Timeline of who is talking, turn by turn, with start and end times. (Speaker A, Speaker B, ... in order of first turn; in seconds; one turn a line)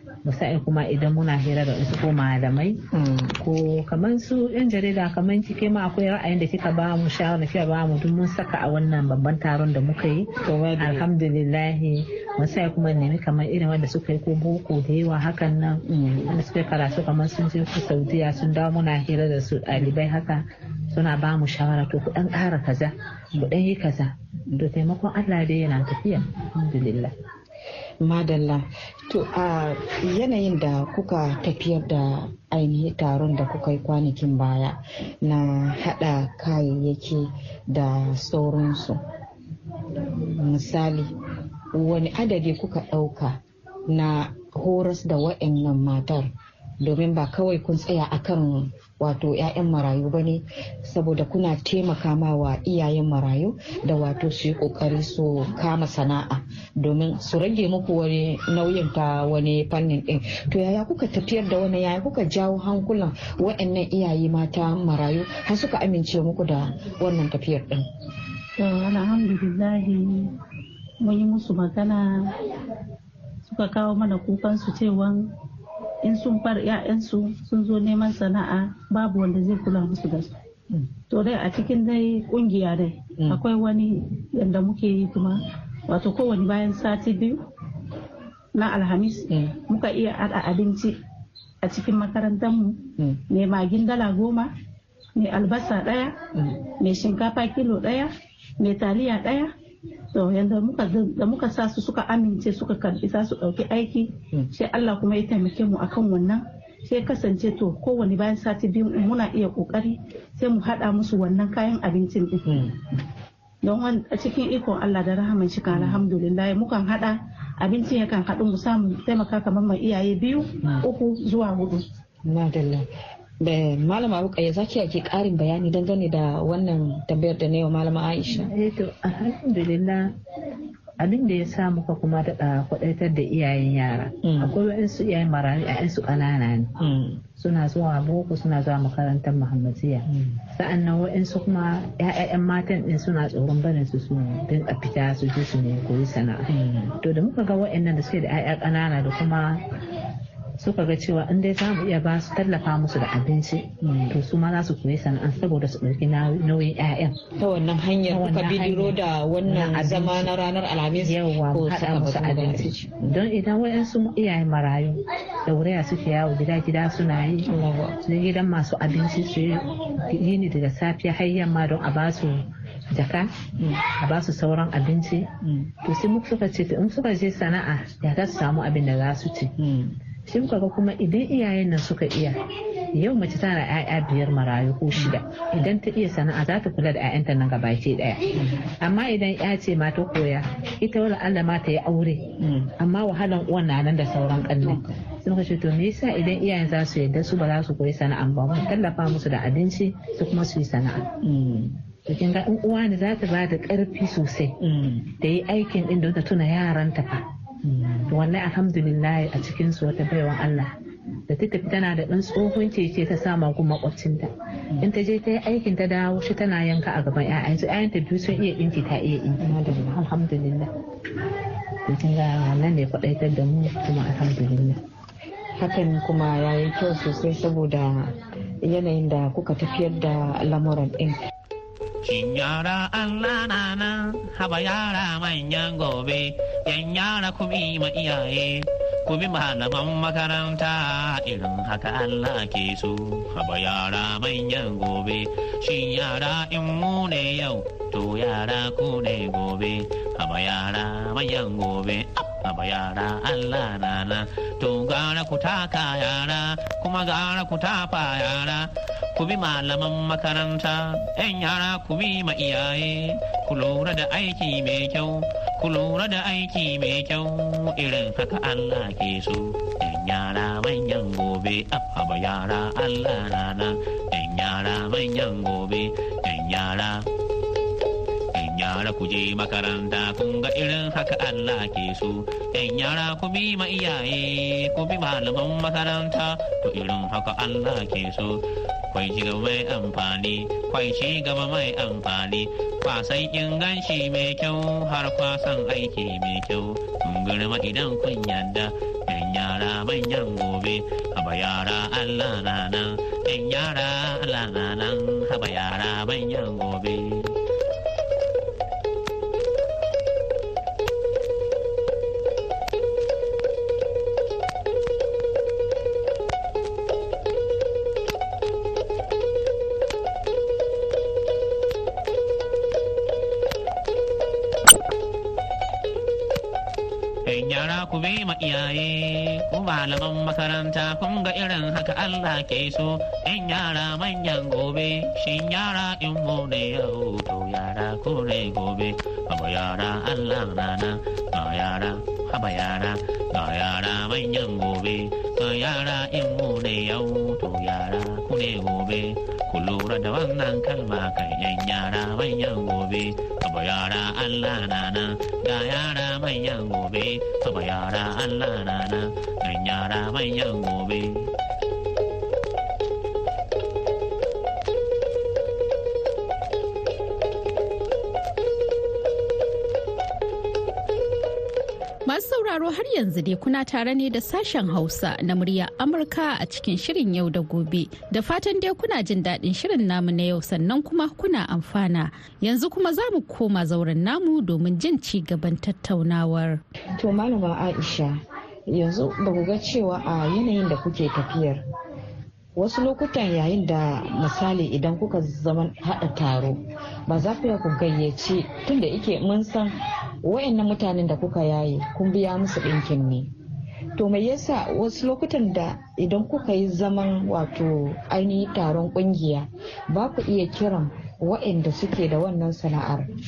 Speaker A: 0.2-2.8
Speaker B: 2.9-3.4
Speaker A: 3.4-27.1
Speaker B: 10.4-11.1
Speaker B: 15.9-16.4
Speaker B: 28.0-39.0
Speaker B: 40.0-41.1
Speaker B: 41.7-46.3
Speaker B: 46.8-67.9
Speaker C: 68.6-70.3
Speaker C: 71.0-72.3
Speaker C: 73.5-75.3
Speaker C: 76.0-80.3
Speaker C: 81.1-87.4
Speaker C: 88.5-91.0
Speaker B: 89.3-89.6
Speaker C: 91.6-94.5
Speaker C: 95.2-96.1
Speaker B: 96.4-96.6
Speaker C: 96.7-99.5
Speaker C: 100.1-112.5
Speaker B: 112.5-112.8
Speaker C: 113.6-121.8
Speaker B: 115.7-116.0
Speaker B: 122.2-122.9
Speaker B: 123.4-128.5
Speaker A: 128.4-130.1
Speaker A: 131.0-136.7
Speaker B: 134.2-134.6
Speaker B: 136.8-137.2
Speaker A: 137.4-149.6
Speaker B: 140.1-140.4
Speaker B: 146.5-147.0
Speaker A: 150.6-157.2
Speaker B: 153.8-154.2
Speaker B: 157.4-163.1
Speaker A: 158.1-160.3
Speaker A: 161.0-167.5
Speaker B: 167.4-168.0
Speaker A: 168.0-173.3
Speaker B: 173.6-173.8
Speaker A: 173.9-175.3
Speaker B: 175.4-175.7
Speaker A: 175.8-179.5
Speaker B: 179.6-180.0
Speaker A: 180.3-182.4
Speaker A: 182.9-201.1
Speaker B: 184.9-185.2
Speaker B: 192.4-192.7
Speaker B: 194.6-194.9
Speaker B: 201.2-201.8
Speaker A: 202.1-204.6
Speaker B: 204.6-205.1
Speaker A: 205.2-207.2
Speaker B: 207.6-208.1
Speaker A: 208.1-210.7
Speaker A: 211.3-220.7
Speaker B: 219.4-220.0
Speaker A: 221.8-224.8
Speaker B: 225.6-228.1
Speaker B: 228.7-231.2
Speaker D: 232.0-277.1
Speaker D: 278.3-307.4
Speaker D: 327.3-361.3
Speaker E: 372.1-386.6
Speaker B: 387.0-391.6
Speaker B: 392.6-403.3
Speaker B: 403.9-413.1